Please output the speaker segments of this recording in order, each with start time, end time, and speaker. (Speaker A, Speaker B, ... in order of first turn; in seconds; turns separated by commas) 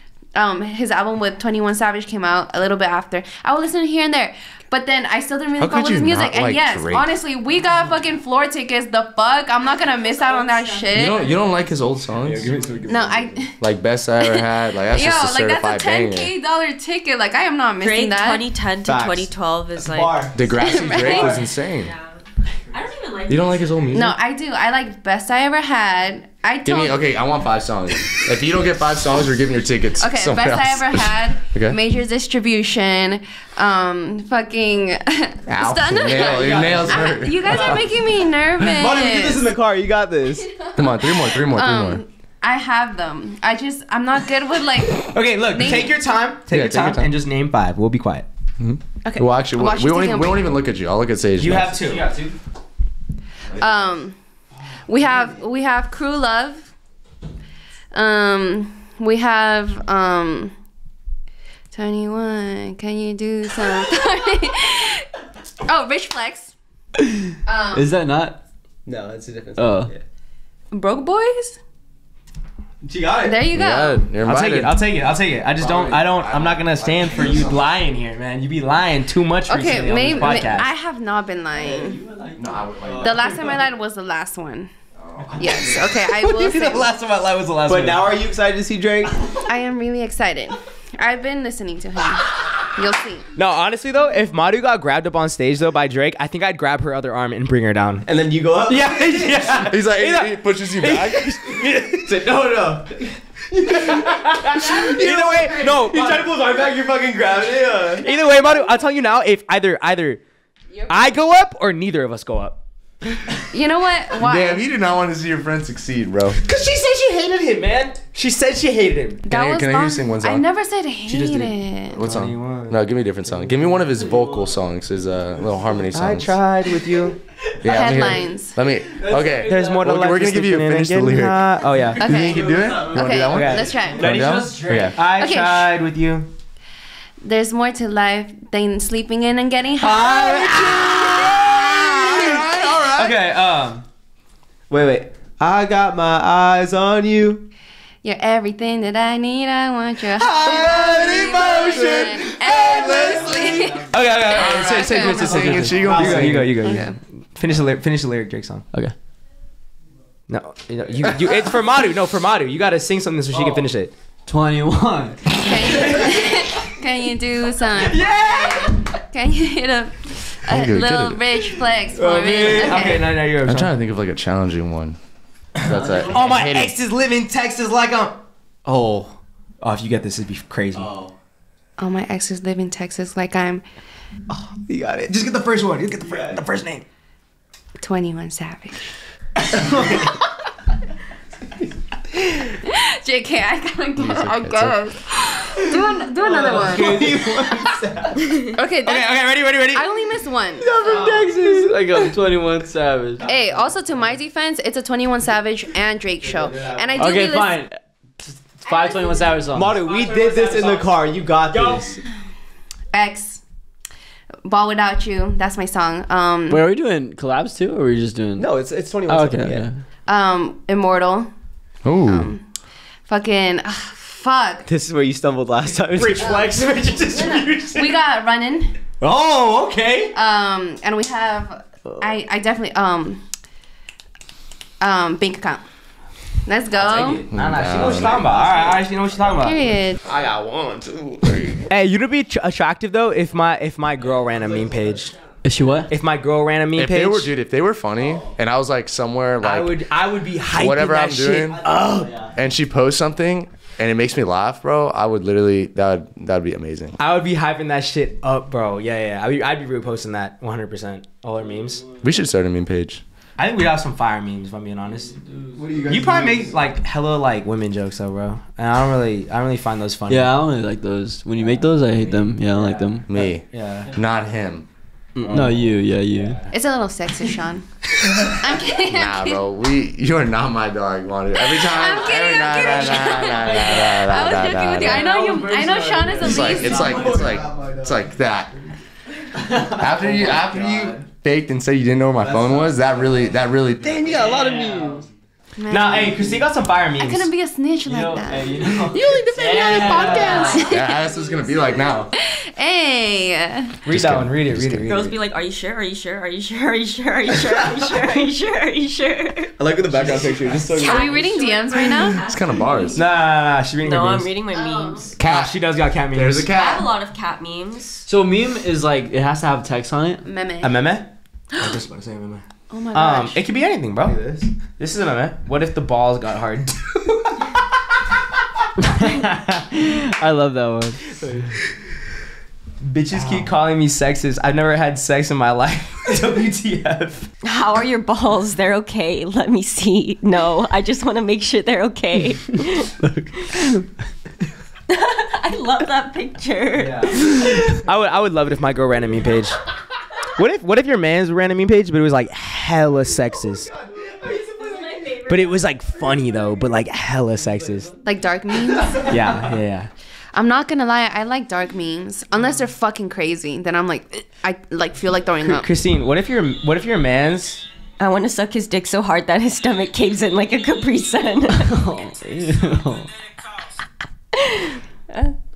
Speaker A: 0.3-11.3, Speaker B: 5.6-7.2, Speaker B: 10.9-12.5, Speaker C: 12.2-13.2, Speaker D: 12.3-13.0, Speaker E: 12.4-12.9, Speaker A: 12.9-13.5, Speaker B: 13.6-16.3, Speaker A: 14.2-18.5, Speaker F: 17.8-23.9, Speaker E: 18.9-20.4, Speaker B: 20.3-21.9, Speaker A: 20.5-21.4, Speaker B: 23.3-24.2, Speaker A: 23.9-27.0, Speaker B: 26.6-31.8, Speaker A: 30.0-39.5, Speaker B: 35.5-37.9, Speaker D: 36.2-37.7, Speaker E: 38.7-40.5, Speaker A: 40.5-46.0, Speaker B: 40.8-42.0, Speaker D: 45.0-48.3, Speaker B: 46.5-47.1, Speaker B: 48.6-51.9, Speaker A: 49.0-50.5, Speaker D: 51.4-52.0, Speaker C: 51.9-52.4, Speaker A: 53.5-54.2, Speaker A: 54.9-56.7, Speaker A: 57.9-60.5, Speaker A: 61.7-65.1, Speaker A: 65.6-66.5, Speaker C: 67.3-68.4, Speaker A: 67.5-67.9, Speaker E: 68.8-70.0, Speaker C: 69.5-69.9, Speaker A: 70.7-71.6, Speaker E: 72.8-73.5, Speaker A: 73.2-74.0, Speaker B: 73.5-74.8, Speaker D: 74.2-80.7, Speaker B: 75.6-77.6, Speaker A: 79.5-82.0, Speaker C: 81.5-83.6, Speaker B: 82.3-83.3, Speaker A: 83.0-84.7, Speaker B: 85.0-85.6, Speaker D: 85.2-88.2, Speaker A: 85.4-86.9, Speaker E: 87.7-89.2, Speaker A: 89.5-93.2, Speaker D: 93.3-98.1, Speaker E: 98.0-99.6, Speaker D: 98.7-102.2, Speaker B: 99.5-101.6, Speaker E: 102.0-108.0, Speaker D: 103.7-106.6, Speaker A: 104.6-105.9, Speaker D: 107.9-110.2, Speaker A: 108.0-108.8, Speaker A: 110.7-111.1, Speaker D: 110.9-112.6, Speaker A: 113.5-114.6, Speaker B: 114.2-116.4, Speaker D: 116.4-119.2, Speaker A: 119.2-122.0, Speaker B: 119.3-120.4, Speaker D: 121.0-123.8, Speaker B: 121.9-126.4, Speaker C: 124.0-124.7, Speaker D: 125.9-127.2, Speaker B: 127.6-134.7, Speaker A: 127.6-128.6, Speaker C: 129.0-129.8, Speaker D: 129.3-132.2, Speaker C: 131.8-132.9, Speaker A: 132.0-134.3, Speaker D: 133.2-136.3, Speaker C: 133.8-134.9, Speaker A: 135.1-135.7, Speaker A: 137.2-141.6, Speaker D: 139.8-143.8, Speaker B: 142.0-143.2, Speaker E: 144.7-147.5, Speaker A: 148.0-155.9, Speaker D: 150.3-152.0, Speaker E: 150.4-151.9, Speaker B: 150.7-153.4, Speaker D: 152.9-158.7, Speaker C: 152.9-153.8, Speaker B: 154.2-156.5, Speaker C: 155.5-155.7, Speaker E: 155.8-156.3, Speaker A: 156.5-157.0, Speaker D: 160.3-163.9, Speaker C: 163.3-163.7, Speaker C: 164.3-166.2, Speaker A: 165.3-173.1, Speaker D: 167.8-168.8, Speaker B: 170.4-171.3, Speaker D: 171.9-173.7, Speaker B: 173.4-175.0, Speaker B: 175.6-176.7, Speaker D: 175.6-178.2, Speaker C: 175.7-176.4, Speaker E: 178.7-179.1, Speaker D: 179.6-180.9, Speaker A: 181.8-183.6, Speaker E: 184.3-185.1, Speaker D: 185.1-186.8, Speaker E: 186.0-186.4, Speaker A: 187.8-188.9, Speaker D: 189.5-190.1, Speaker A: 192.4-197.7, Speaker B: 194.0-194.8, Speaker D: 196.2-197.5, Speaker E: 196.3-198.4, Speaker A: 198.5-201.0, Speaker D: 198.8-199.8, Speaker E: 200.6-202.1, Speaker C: 200.8-203.3, Speaker A: 203.2-207.6, Speaker E: 206.2-207.1, Speaker C: 206.9-209.9, Speaker A: 208.7-209.3, Speaker E: 209.5-212.0, Speaker D: 210.1-210.7, Speaker A: 212.9-213.4, Speaker A: 214.4-216.6, Speaker C: 216.5-218.5, Speaker E: 218.4-219.7, Speaker C: 219.1-219.8, Speaker A: 220.1-221.3, Speaker B: 221.8-222.3, Speaker A: 222.1-222.4, Speaker A: 223.1-224.7, Speaker E: 224.7-226.4, Speaker D: 225.9-227.5, Speaker A: 226.2-228.8, Speaker C: 226.2-227.8, Speaker D: 229.0-230.2, Speaker A: 230.1-233.2, Speaker A: 234.8-235.6, Speaker A: 236.4-237.2, Speaker D: 236.7-239.6, Speaker B: 237.3-238.3, Speaker A: 239.4-240.0, Speaker E: 240.1-241.5, Speaker B: 241.2-241.6, Speaker D: 241.7-245.1, Speaker C: 245.4-245.9, Speaker D: 245.9-247.3, Speaker B: 246.7-249.8, Speaker D: 249.4-252.2, Speaker B: 250.5-251.6, Speaker C: 251.6-252.3, Speaker B: 252.3-257.0, Speaker D: 257.0-261.8, Speaker B: 262.0-263.0, Speaker D: 263.4-265.1, Speaker C: 265.1-265.6, Speaker E: 265.6-266.5, Speaker D: 265.9-270.3, Speaker C: 270.1-273.1, Speaker D: 272.2-273.9, Speaker B: 273.1-274.7, Speaker E: 275.1-275.6, Speaker C: 275.3-276.4, Speaker D: 276.1-276.5, Speaker A: 276.5-277.7, Speaker A: 278.2-279.4, Speaker B: 278.7-285.1, Speaker A: 281.4-287.2, Speaker C: 284.8-287.0, Speaker B: 286.2-288.5, Speaker E: 286.8-288.1, Speaker C: 289.3-290.4, Speaker B: 289.8-294.2, Speaker E: 290.0-291.0, Speaker E: 292.2-293.1, Speaker E: 294.0-295.0, Speaker C: 294.0-295.1, Speaker A: 295.6-296.4, Speaker D: 295.7-297.3, Speaker A: 297.0-301.1, Speaker C: 297.9-300.6, Speaker F: 300.2-300.6, Speaker B: 300.5-302.1, Speaker A: 302.1-303.8, Speaker D: 303.8-305.1, Speaker B: 303.9-304.9, Speaker F: 304.9-309.6, Speaker E: 309.6-311.3, Speaker D: 309.9-310.4, Speaker F: 310.6-313.1, Speaker A: 310.8-312.3, Speaker B: 312.1-313.0, Speaker D: 312.9-314.3, Speaker F: 313.8-315.1, Speaker A: 314.5-315.1, Speaker D: 315.2-316.5, Speaker B: 315.2-316.9, Speaker F: 316.4-318.1, Speaker C: 318.1-320.2, Speaker A: 320.2-320.8, Speaker D: 320.6-322.4, Speaker A: 322.7-323.4, Speaker D: 322.9-324.2, Speaker E: 324.0-324.5, Speaker D: 324.8-326.9, Speaker C: 328.8-331.4, Speaker D: 332.8-337.3, Speaker E: 333.1-333.4, Speaker F: 337.4-342.9, Speaker F: 344.9-347.4, Speaker D: 346.8-349.6, Speaker D: 350.2-353.7, Speaker F: 354.6-355.7, Speaker D: 355.3-357.9, Speaker A: 358.0-359.2, Speaker D: 359.0-359.9, Speaker A: 360.3-365.7, Speaker D: 365.4-367.6, Speaker F: 368.0-371.8, Speaker C: 371.5-373.1, Speaker F: 374.4-374.8